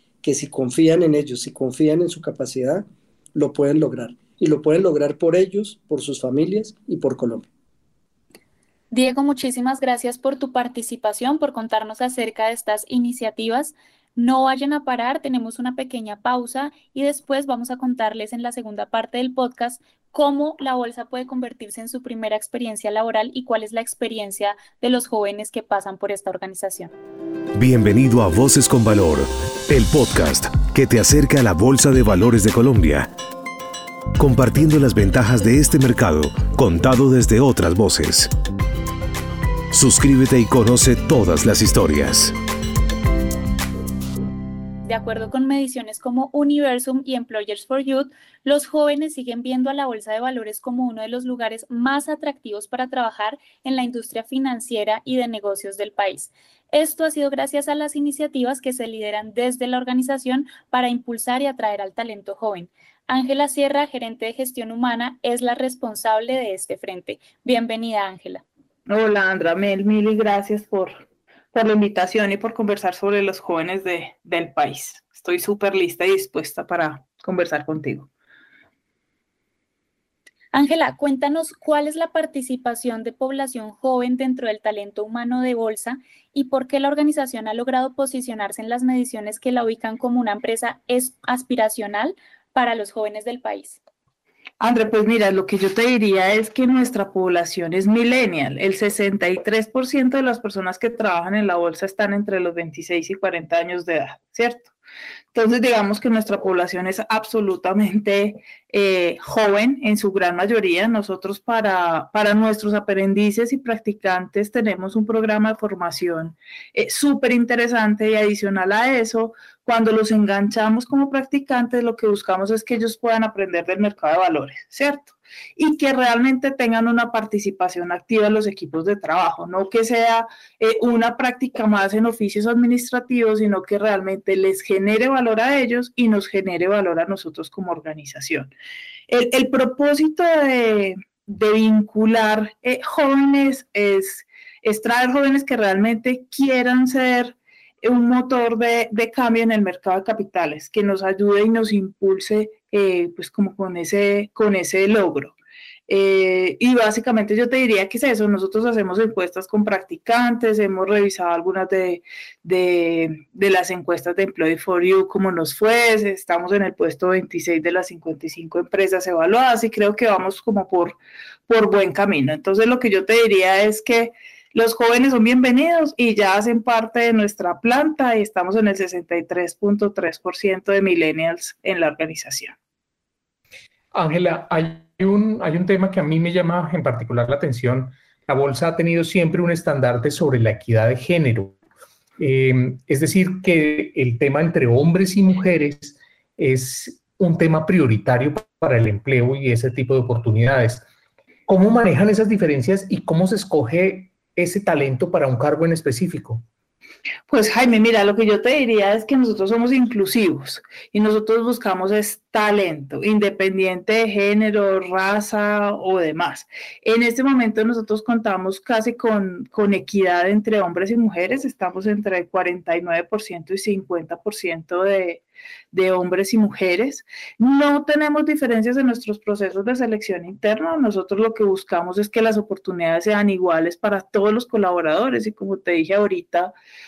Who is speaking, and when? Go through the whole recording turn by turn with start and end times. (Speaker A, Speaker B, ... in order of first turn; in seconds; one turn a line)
Speaker A: 0.2-7.5
Speaker B: 8.9-26.9
Speaker C: 27.6-33.1
Speaker C: 34.2-38.3
Speaker C: 39.7-42.4
Speaker B: 44.9-68.5
Speaker D: 68.9-78.1
Speaker B: 80.5-93.8
Speaker D: 94.6-104.7
Speaker D: 105.3-138.5
Speaker D: 139.1-155.4
Speaker D: 155.9-182.5
Speaker E: 183.9-191.6
Speaker E: 192.2-200.8
Speaker E: 201.5-206.4
Speaker D: 207.3-236.5